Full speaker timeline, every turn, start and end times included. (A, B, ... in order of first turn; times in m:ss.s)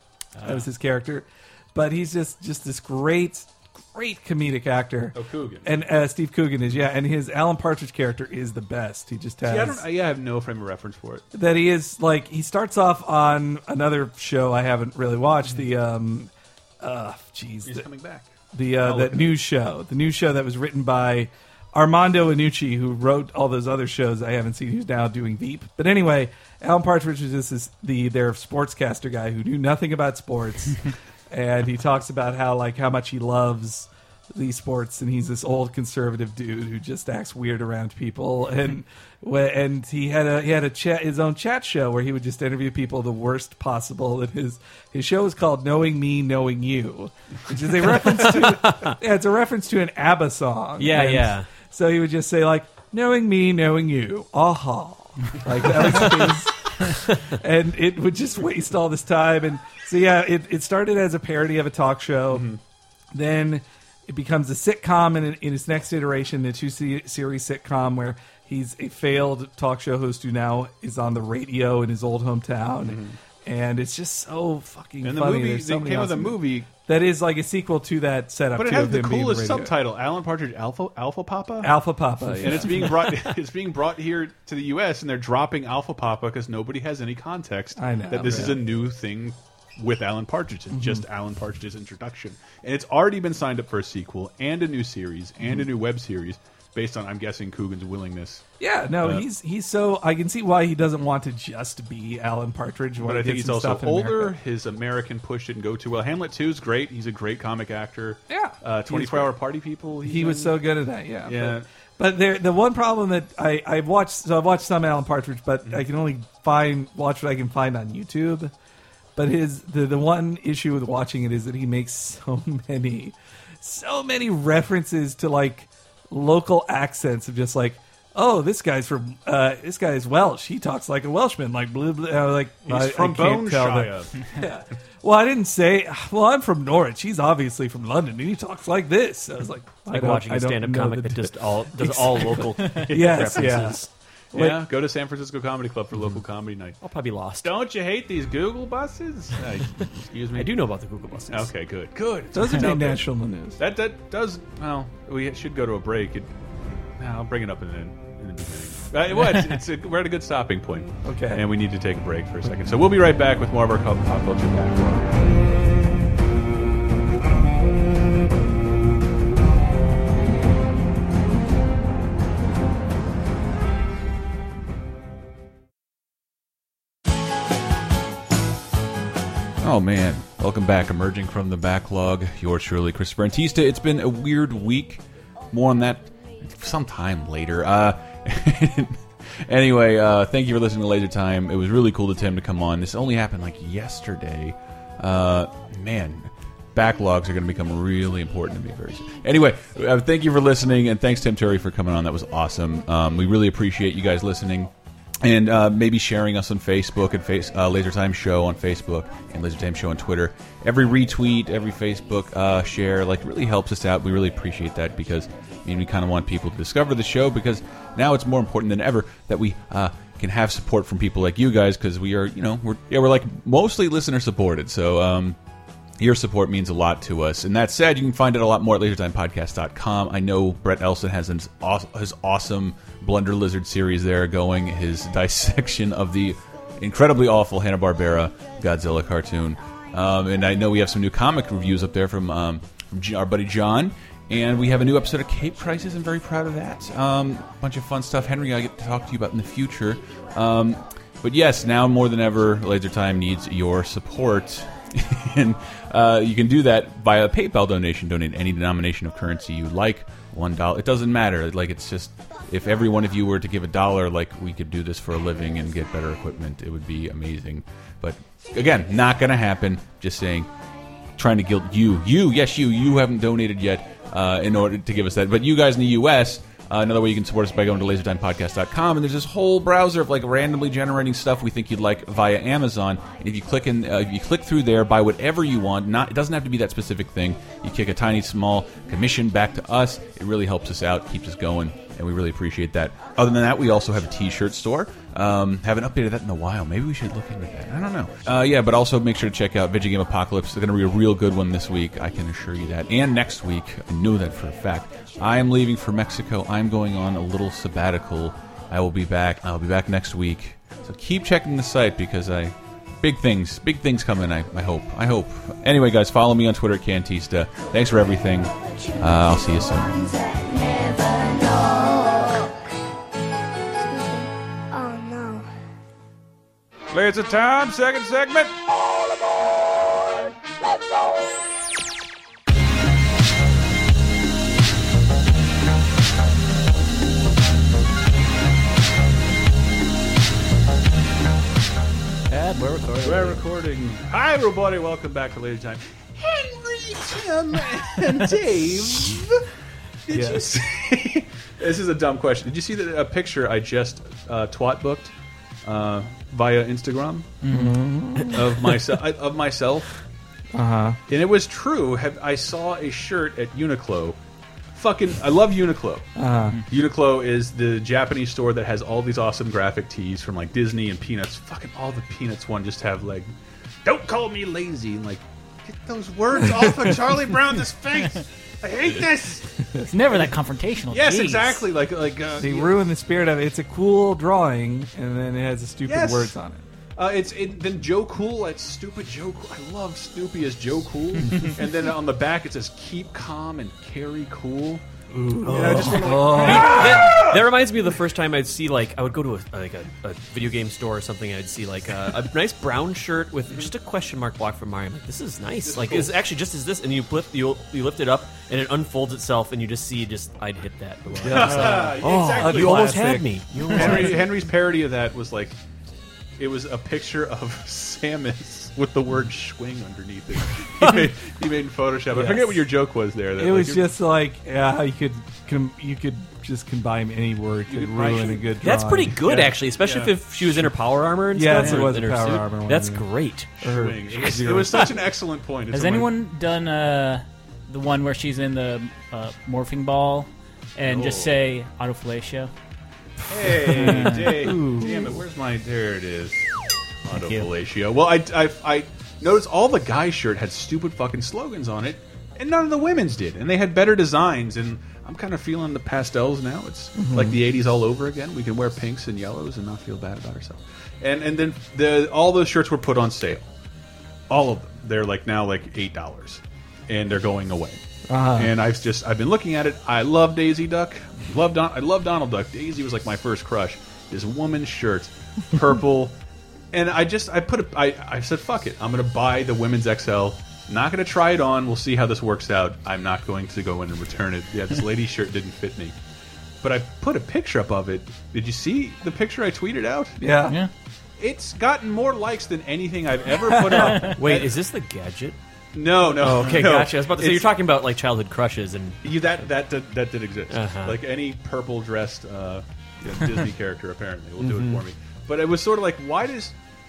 0:00.4-0:09.8 A
0:05.1-0:05.8 B
0:09.4-0:11.2 B
0:11.3-0:17.8 A
0:17.6-0:19.3 B
0:18.5-1:02.5 A
0:48.3-0:49.0 C
0:50.8-0:51.5 C
1:02.3-1:02.6 B
1:03.1-1:19.7 A
1:12.8-1:13.2 B
1:15.0-1:16.7 B
1:18.5-1:21.8 B
1:21.6-1:23.2 A
1:22.4-1:38.4 B
1:27.8-1:28.6 A
1:30.7-1:31.0 A
1:38.6-1:44.4 A
1:43.0-1:50.6 B
1:48.3-1:49.3 A
1:50.0-1:58.5 A
1:51.2-1:51.7 B
1:59.2-2:24.6 A
2:12.6-2:14.1 B
2:19.9-2:23.9 C
2:23.0-2:23.5 B
2:24.3-2:26.8 B
2:26.8-2:27.5 C
2:27.4-2:30.6 B
2:30.3-2:31.5 C
2:31.3-2:33.0 B
2:32.3-2:33.6 A
2:33.6-2:36.3 B
2:37.0-2:45.3 B
2:41.0-2:41.4 A
2:59.6-3:24.7 B
3:25.2-3:45.4 B
3:46.0-4:30.5 B
4:31.2-5:20.0 B
5:19.7-5:22.7 D
5:23.8-5:25.5 D
5:26.9-5:28.5 B
5:42.3-5:43.4 E
5:43.0-5:49.4 B
5:50.0-5:55.1 B
5:50.1-5:50.4 A
5:55.6-5:57.4 B
5:57.4-5:58.3 E
5:57.5-5:58.4 A
5:58.3-5:59.9 B
6:00.5-6:01.0 A
6:01.1-6:04.2 B
6:04.7-6:06.1 B
6:06.2-6:06.6 A
6:06.7-6:13.3 B
6:13.8-6:19.6 B
6:19.9-6:21.6 E
6:20.9-6:22.8 B
6:22.4-6:26.6 A
6:25.8-6:26.4 B
6:27.0-6:34.8 B
6:35.1-6:37.0 A
6:35.4-6:37.4 B
6:36.1-6:54.2 C
6:45.6-6:46.1 B
6:51.2-6:53.0 B
6:51.2-6:53.9 A
6:51.6-6:51.9 E
6:53.7-6:55.6 B
6:56.4-7:03.9 B
7:02.1-7:02.6 A
7:03.4-7:09.2 A
7:07.7-7:08.5 B
7:08.6-7:13.5 C
7:09.2-7:10.2 B
7:11.3-7:13.1 A
7:13.6-7:16.1 B
7:13.6-7:15.0 A
7:15.7-7:22.5 E
7:20.8-7:21.3 B
7:23.3-7:26.5 B
7:23.6-7:24.6 E
7:23.6-7:25.1 A
7:27.0-7:43.5 B
7:27.1-7:27.5 E
7:37.0-7:37.4 A
7:44.3-7:56.1 B
7:48.1-7:48.5 A
7:56.7-8:05.9 B
8:06.6-8:10.2 B
8:10.2-8:10.6 A
8:11.2-8:14.6 B
8:13.7-8:14.0 A
8:14.1-8:15.4 C
8:15.7-8:17.5 B
8:16.1-8:19.0 C
8:19.0-8:26.5 B
8:20.5-8:21.0 C
8:24.4-8:24.8 C